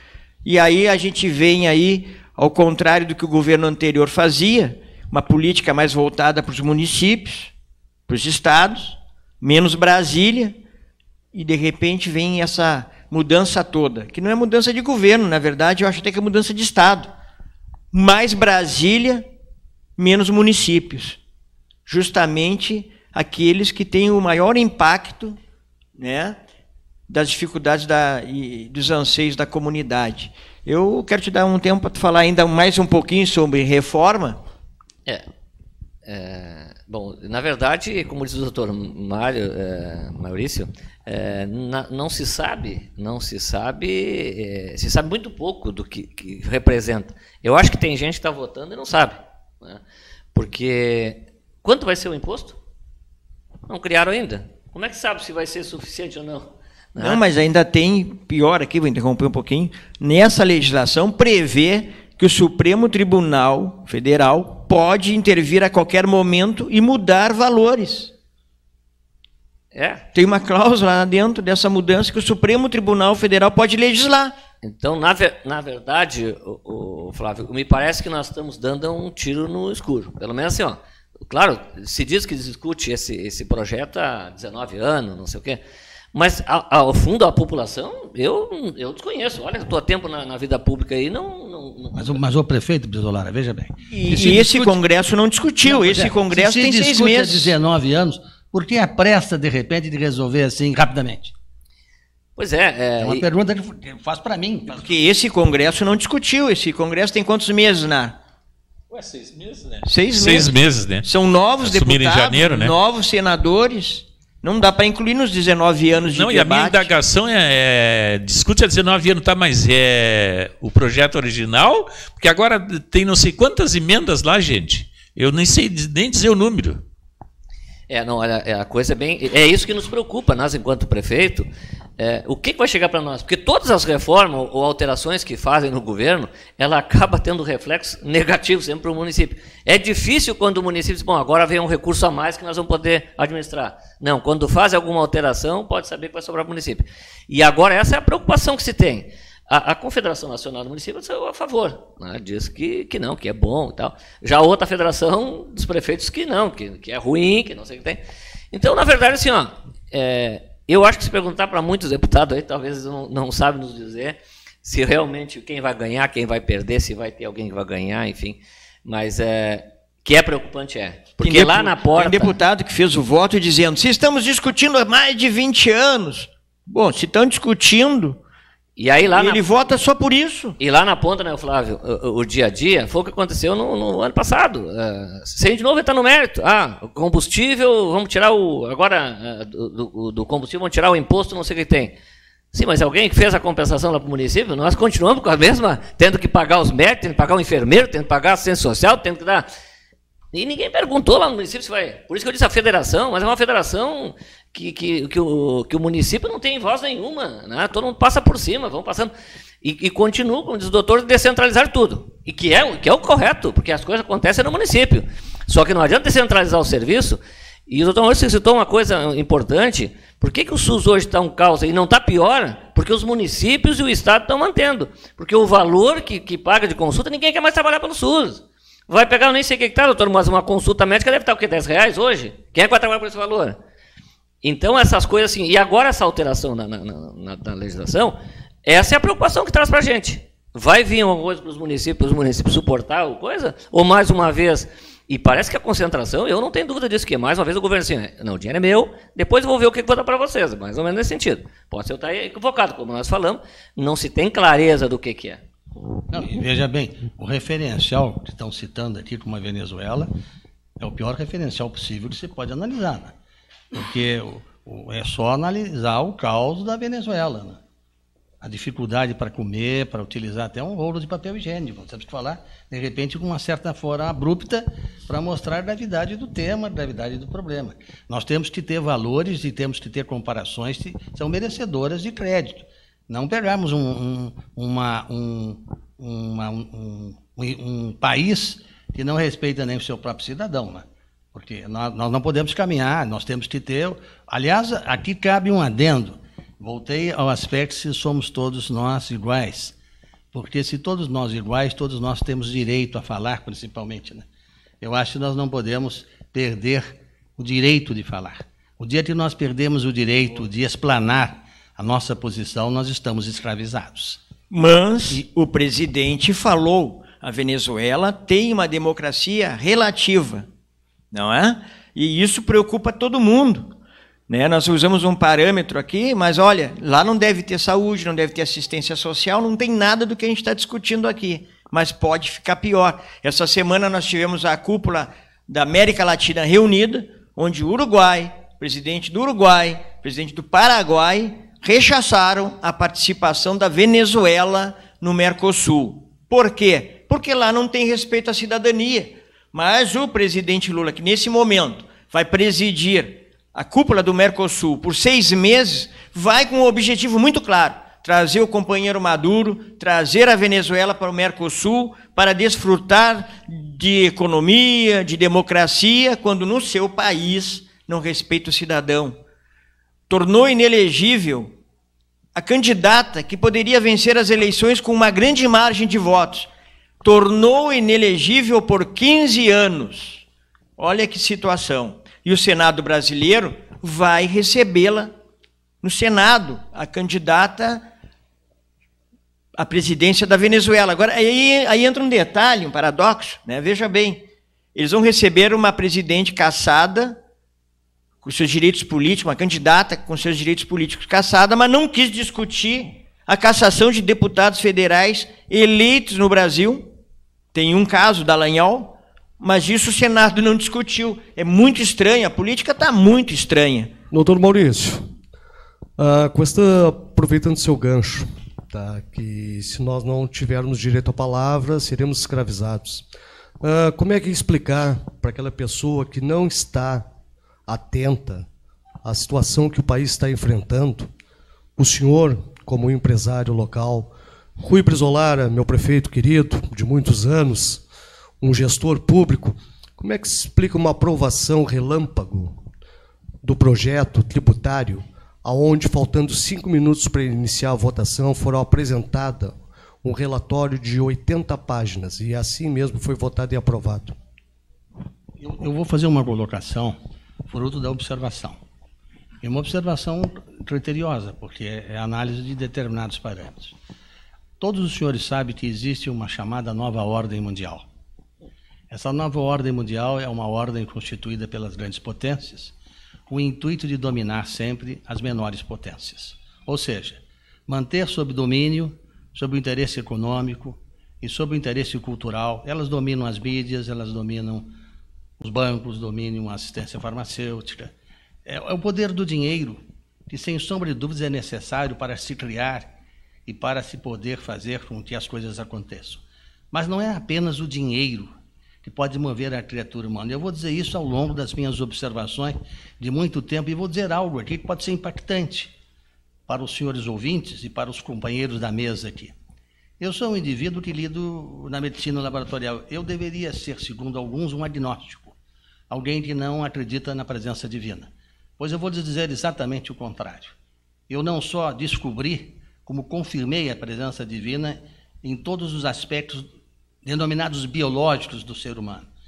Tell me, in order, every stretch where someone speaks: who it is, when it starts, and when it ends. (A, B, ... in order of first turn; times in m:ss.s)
0:00.4-0:07.5 A
0:08.1-0:10.6 A
0:11.3-0:17.1 A
0:17.9-0:19.2 A
0:20.0-0:21.2 A
0:21.8-0:25.4 A
0:26.0-0:26.4 A
0:27.1-0:34.4 A
0:36.0-0:49.8 B
0:50.3-0:52.6 B
0:53.7-0:57.2 B
0:57.0-1:08.1 A
1:09.7-1:10.0 B
1:10.1-1:14.3 A
1:14.6-1:25.6 B
1:26.1-1:32.2 B
1:31.9-1:34.8 C
1:33.9-1:37.5 A
1:35.6-1:41.3 C
1:42.4-1:43.2 B
1:43.0-1:44.9 C
1:44.7-1:48.2 A
1:48.9-1:51.1 D
1:49.8-1:50.5 A
1:51.0-1:56.9 A
1:51.6-1:52.7 D
1:56.1-2:06.8 D
2:07.9-2:11.4 B
2:12.0-2:38.0 B
2:38.5-2:52.3 B
2:51.2-2:58.2 A
2:58.8-2:59.4 B
2:59.1-3:00.6 A
3:00.6-3:11.9 B
3:12.5-3:19.5 B
3:20.3-3:29.1 B
3:29.6-3:53.6 B
3:54.4-4:15.4 B
4:16.1-4:20.1 C
4:20.8-4:23.1 C
4:23.7-4:27.6 C
4:28.4-4:59.7 C
5:00.3-5:04.2 C
5:04.8-5:14.2 C
5:14.5-5:20.5 A
5:21.1-5:23.7 A
5:24.3-6:09.2 A
6:10.1-6:11.5 A
6:12.3-6:16.5 A
6:17.0-6:20.2 A
6:20.8-6:25.1 A
6:25.8-6:27.8 A
6:29.6-6:34.2 A
6:34.7-6:37.2 A
6:38.2-6:46.9 A
6:47.5-6:53.9 A
6:54.1-6:55.1 E
6:56.0-7:03.0 E
7:03.6-7:07.0 E
7:07.7-7:08.5 E
7:09.0-7:11.1 E
7:11.8-7:17.8 E
7:18.4-7:22.6 E
7:23.4-7:34.1 E
7:35.4-7:37.0 C
7:37.5-7:38.6 C
7:39.4-7:43.7 C
7:44.6-7:47.8 C
7:48.9-7:52.7 C
7:53.3-8:04.7 C
8:05.4-8:07.9 C
8:08.4-8:12.9 C
8:13.5-8:18.3 C
8:18.8-8:25.7 C
8:26.5-8:29.3 C
8:30.0-8:35.3 C
8:35.9-8:40.5 C
8:41.1-8:46.4 C
8:47.0-8:49.1 C